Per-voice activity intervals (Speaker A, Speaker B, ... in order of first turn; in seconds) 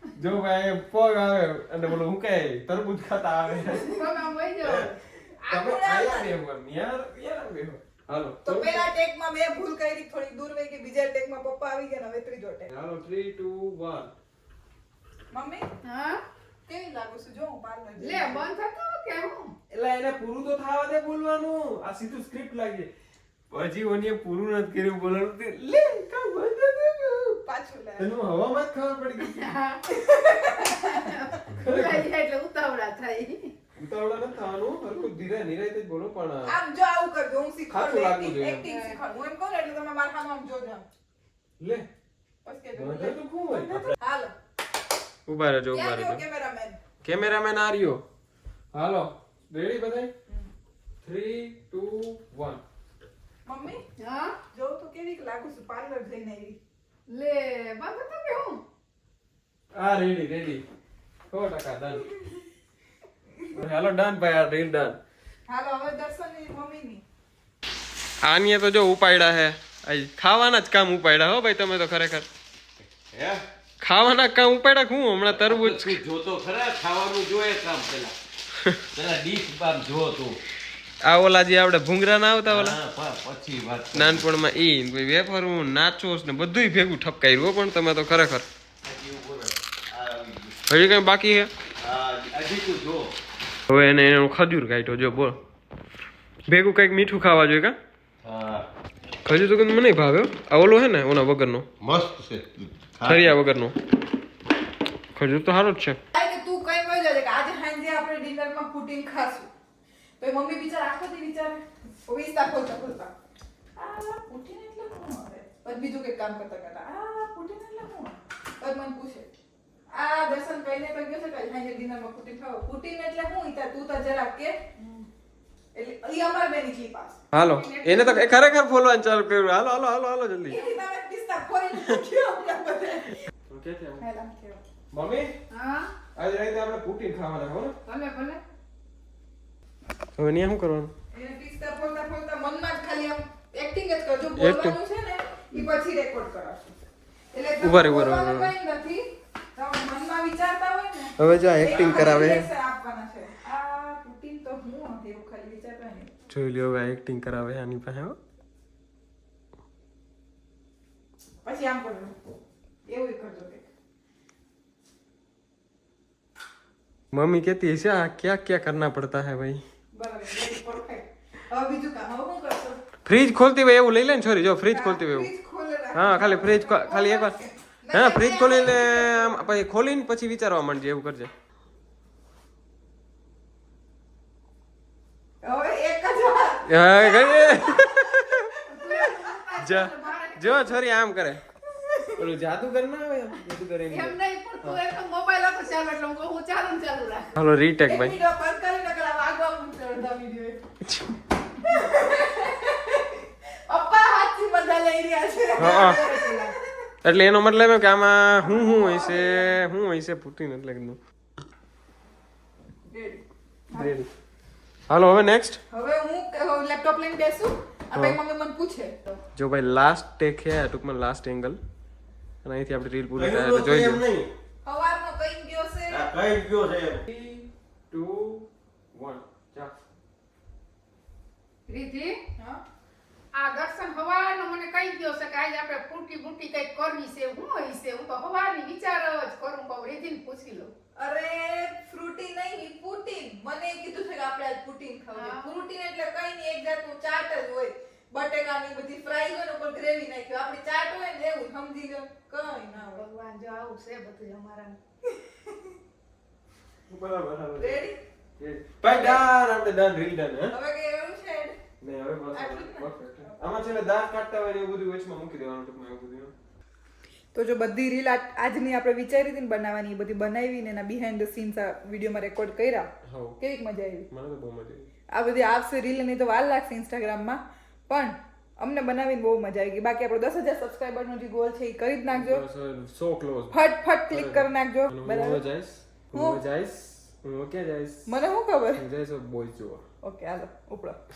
Speaker A: 0.1-4.0, 5.5-8.8, 12.7-14.1, 19.7-22.9, 23.5-27.4, 28.0-29.5, 31.5-32.1, 33.8-36.5, 37.7-38.6, 41.6-41.9, 42.7-43.9, 45.3-46.2, 47.0-48.0, 48.7-50.1, 51.0-52.6, 59.7-60.6, 61.3-62.1, 63.5-65.0, 68.2-72.3, 73.8-76.0, 81.0-82.8, 83.9-88.5, 90.7-91.5, 93.7-95.4, 96.5-97.8, 99.2-101.7, 103.1-103.8, 105.1-106.0, 127.3-130.6, 133.5-134.1, 134.9-135.3, 136.1-137.8, 140.2-140.9, 144.3-144.8, 147.6-148.5, 151.2-152.5, 156.3-158.2, 167.1-169.6, 173.1-175.3, 175.9-177.3, 177.9-181.3, 186.6-188.5, 189.6-191.4, 192.1-194.8, 197.3-198.2, 200.9-201.2, 205.6-206.0, 207.0-211.0, 213.7-214.1, 214.9-215.6, 219.3-221.6, 222.4-224.0, 227.1-229.7, 256.9-257.9, 258.4-260.5, 261.8-266.3, 273.0-273.4, 274.1-274.9, 282.1-288.1, 288.7-289.8
Speaker B: 3.8-6.2, 15.8-16.2, 18.0-19.5, 29.2-29.8, 30.6-33.5, 38.6-39.0, 54.0-54.4, 57.1-58.6, 127.3-128.5, 135.5-135.9, 137.8-138.4, 188.7-190.8, 193.9-197.3, 205.6-206.5, 231.7-232.2, 233.3-240.7, 245.1-245.7, 252.8-254.8
Speaker C: 4.6-4.9, 72.8-73.4, 75.2-78.1, 78.9-80.4, 82.5-84.3, 88.8-90.6, 91.8-93.1, 98.2-98.7, 101.8-103.4, 223.1-224.3, 225.9-227.0
Speaker D: 5.5-6.3, 8.4-12.7, 15.3-15.7, 16.7-18.5, 27.4-28.1, 29.9-31.1, 36.5-40.8, 42.4-44.3, 45.7-46.8, 53.4-53.8, 54.5-56.6, 65.5-67.0, 106.1-109.5, 110.2-113.1, 113.8-119.3, 119.9-125.0, 125.7-127.2, 130.5-133.2, 134.0-134.6, 141.1-146.7, 147.3-156.1, 161.4-162.2, 162.8-163.7, 169.9-172.8, 174.7-179.5, 185.4-189.4, 191.8-192.1, 197.8-200.6, 201.6-206.9, 208.4-209.6, 212.9-213.2, 215.7-218.9, 224.6-226.1, 232.3-232.6, 240.9-253.1, 255.1-255.7, 257.6-258.0, 258.9-259.2, 260.5-261.6, 262.3-263.3, 267.3-274.1, 275.1-282.4, 283.5-285.4, 286.1-286.4, 288.1-288.8, 290.0-291.0